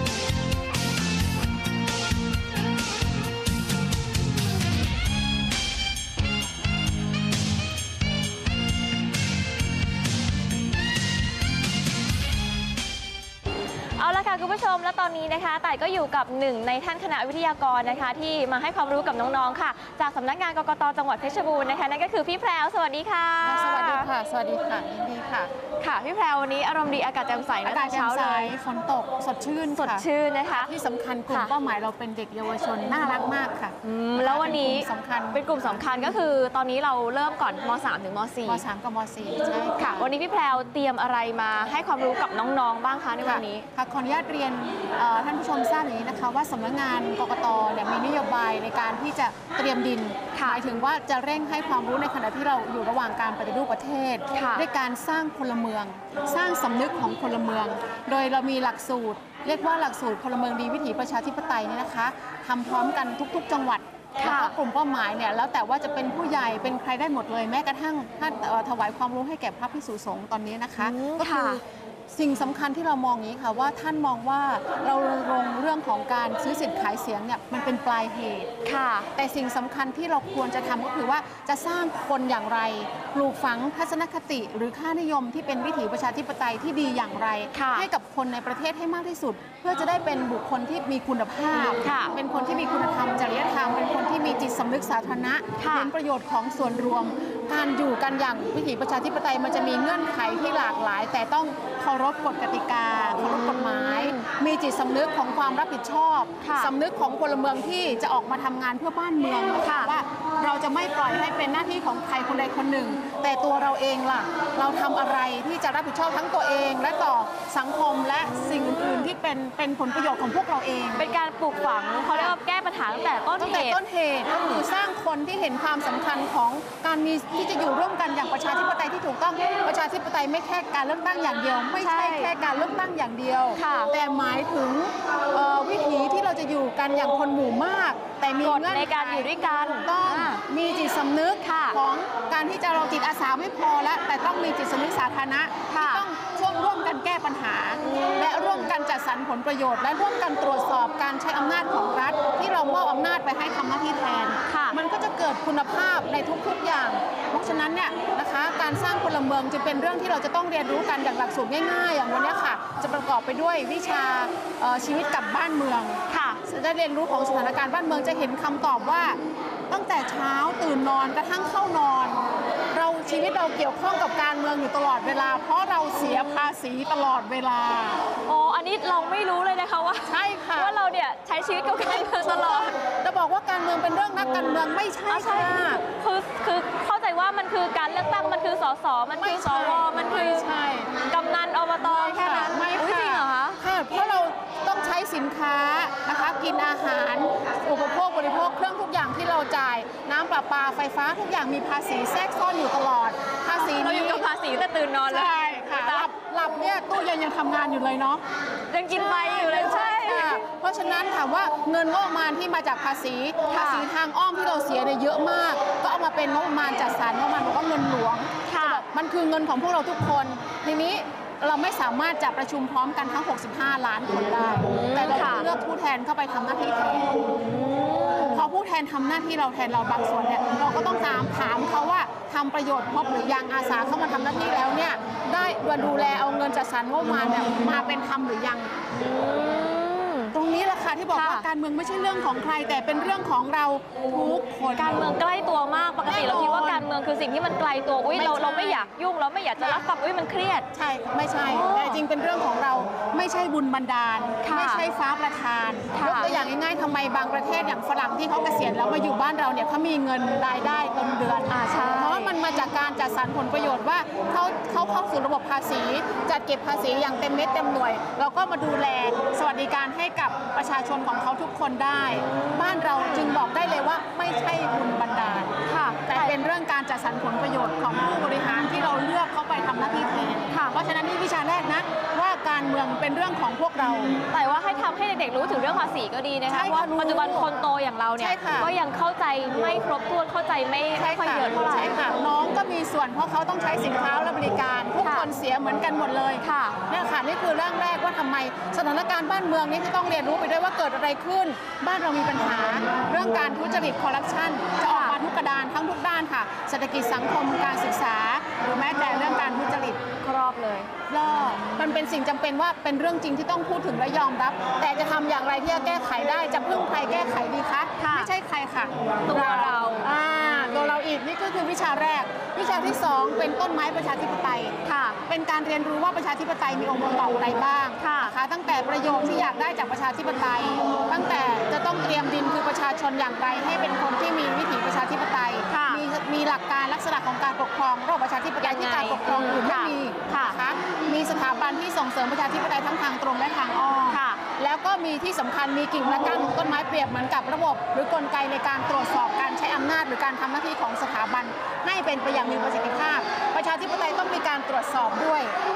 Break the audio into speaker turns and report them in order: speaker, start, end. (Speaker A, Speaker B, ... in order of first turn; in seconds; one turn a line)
Speaker A: 14.0-24.1
Speaker B: 23.4-25.5
Speaker A: 25.8-28.5
Speaker B: 27.6-35.8
Speaker A: 29.7-30.7
Speaker A: 33.8-38.6
Speaker B: 38.5-40.0
Speaker A: 39.8-43.6
Speaker B: 43.2-78.5
Speaker A: 50.3-50.6
Speaker A: 54.3-54.6
Speaker A: 64.2-64.5
Speaker A: 70.8-71.6
Speaker A: 78.6-79.1
Speaker B: 79.1-121.0
Speaker A: 87.5-87.9
Speaker A: 91.6-92.1
Speaker A: 95.6-95.9
Speaker A: 103.7-104.2
Speaker A: 106.4-106.7
Speaker A: 109.6-109.9
Speaker A: 118.3-119.1
Speaker A: 121.0-123.8
Speaker B: 122.1-122.4
Speaker B: 123.4-169.2
Speaker A: 131.8-132.3
Speaker A: 133.6-133.9
Speaker A: 138.4-140.4
Speaker A: 141.4-141.8
Speaker A: 145.7-146.0
Speaker A: 147.8-148.7
Speaker A: 154.5-154.8
Speaker A: 166.1-166.4
Speaker B: 169.7-172.2
Speaker B: 172.7-178.0
Speaker A: 178.2-182.8
Speaker B: 180.1-180.7
Speaker B: 181.8-185.8
Speaker A: 184.2-184.5
Speaker A: 185.1-190.5
Speaker B: 189.2-190.9
Speaker A: 191.1-193.6
Speaker B: 191.8-204.2
Speaker A: 203.5-205.3
Speaker B: 205.1-208.2
Speaker A: 205.8-206.1
Speaker A: 208.7-210.3
Speaker B: 208.9-227.2
Speaker A: 213.5-213.9
Speaker A: 218.4-218.8
Speaker A: 224.7-225.5
Speaker A: 227.4-228.5
Speaker B: 228.3-238.7
Speaker A: 238.9-240.4
Speaker B: 240.3-245.1
Speaker A: 241.1-241.5
Speaker A: 244.8-250.7
Speaker B: 246.0-246.8
Speaker B: 248.2-248.9
Speaker B: 250.7-275.5
Speaker A: 251.5-252.0
Speaker A: 254.4-254.9
Speaker A: 255.9-256.4
Speaker A: 261.5-262.3
Speaker A: 275.7-276.3
Speaker B: 276.1-284.1
Speaker A: 280.5-280.8
Speaker A: 284.3-291.9
Speaker B: 286.5-287.5
Speaker B: 288.2-288.7
Speaker B: 291.0-310.0
Speaker A: 295.0-295.3
Speaker A: 296.4-296.8
Speaker A: 304.9-305.2
Speaker A: 310.2-310.9
Speaker B: 311.1-324.8
Speaker A: 318.0-318.3
Speaker A: 319.2-320.1
Speaker A: 324.9-325.2
Speaker B: 325.3-355.6
Speaker A: 328.0-328.4
Speaker A: 335.7-336.0
Speaker A: 338.6-340.6
Speaker A: 344.1-344.4